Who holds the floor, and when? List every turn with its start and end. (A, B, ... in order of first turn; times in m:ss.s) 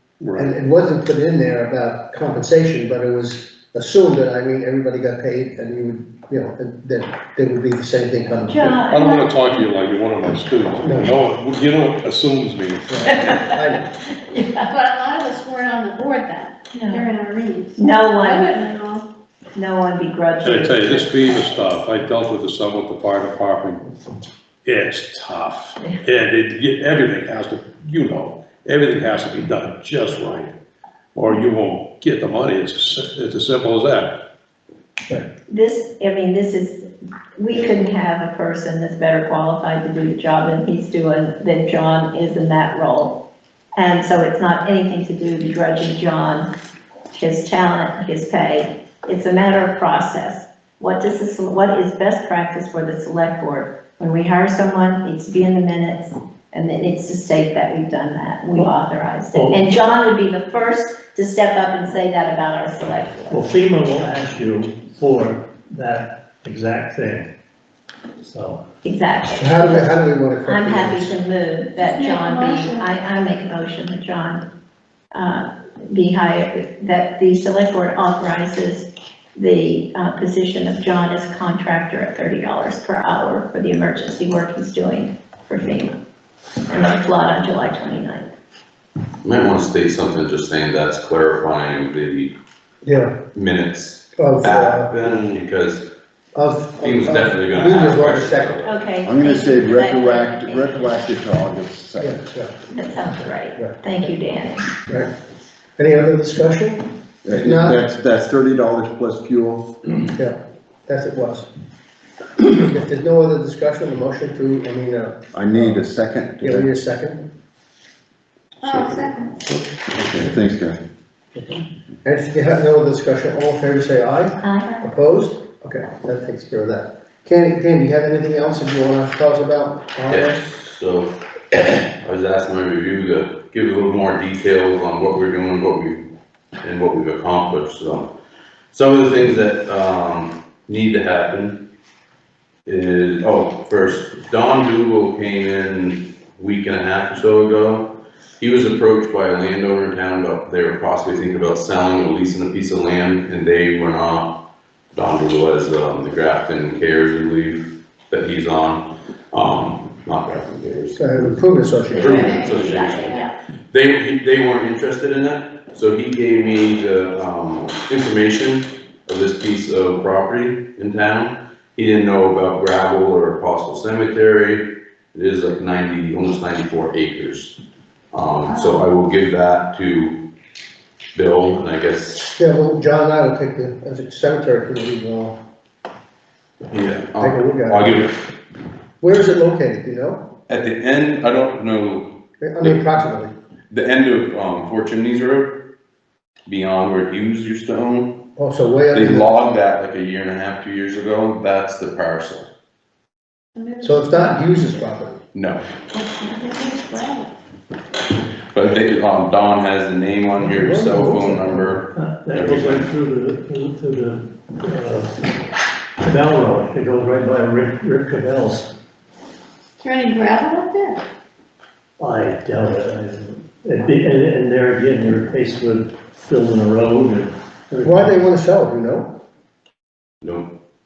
0:00.2-0:00.5 A
0:00.4-0:08.8 B
0:08.5-0:09.5 C
0:08.9-0:13.3 A
0:10.8-0:11.1 B
0:12.9-0:13.9 B
0:13.1-0:13.5 C
0:14.3-0:14.7 C
0:14.7-0:19.0 D
0:16.7-0:17.1 C
0:17.8-0:18.6 C
0:19.6-0:21.2 C
0:20.4-0:23.9 A
0:24.6-0:30.5 A
0:31.2-0:34.2 A
0:35.5-0:36.8 C
0:37.4-0:43.2 C
0:43.8-0:46.5 C
0:47.1-1:03.5 C
0:59.3-0:59.6 E
1:03.3-1:07.3 E
1:08.2-1:08.6 E
1:08.8-1:09.9 C
1:09.4-1:11.1 B
1:10.4-1:14.4 C
1:11.9-1:12.8 D
1:15.1-1:26.0 C
1:26.7-1:28.3 C
1:29.2-1:32.3 F
1:32.8-1:33.1 B
1:33.3-1:35.9 F
1:34.2-1:34.9 B
1:36.3-1:38.6 B
1:36.8-1:38.7 F
1:38.6-1:41.0 C
1:39.0-1:42.2 G
1:42.0-1:42.6 B
1:42.7-1:44.7 C
1:43.1-1:44.1 B
1:45.8-1:47.8 B
1:47.2-1:49.8 G
1:50.1-1:51.5 B
1:52.4-1:55.8 B
1:55.3-1:56.7 G
1:56.4-1:57.2 B
1:58.6-1:59.4 D
1:58.7-2:00.8 G
2:01.4-2:10.6 B
2:04.4-2:04.8 C
2:10.1-2:16.0 F
2:16.6-2:18.1 F
2:18.7-2:21.6 F
2:22.7-2:34.4 F
2:34.9-2:41.2 F
2:41.0-2:42.4 B
2:41.9-2:43.3 C
2:42.0-2:43.2 F
2:42.2-2:43.3 D
2:43.7-2:57.6 F
2:58.1-3:00.2 F
3:01.2-3:02.2 F
3:02.3-3:05.4 B
3:06.7-3:08.1 F
3:07.2-3:08.0 B
3:09.0-3:10.3 B
3:10.5-3:12.8 F
3:12.4-3:13.3 B
3:13.7-3:15.6 F
3:16.5-3:18.2 F
3:18.4-3:19.3 B
3:18.9-3:22.5 F
3:23.6-3:24.4 D
3:23.8-3:25.2 B
3:25.3-3:25.6 F
3:25.9-3:27.3 D
3:28.5-3:32.9 F
3:30.4-3:31.7 B
3:31.9-3:35.2 E
3:36.0-3:38.7 E
3:39.8-3:41.0 D
3:42.0-3:48.1 E
3:47.8-3:49.2 B
3:50.2-3:50.5 F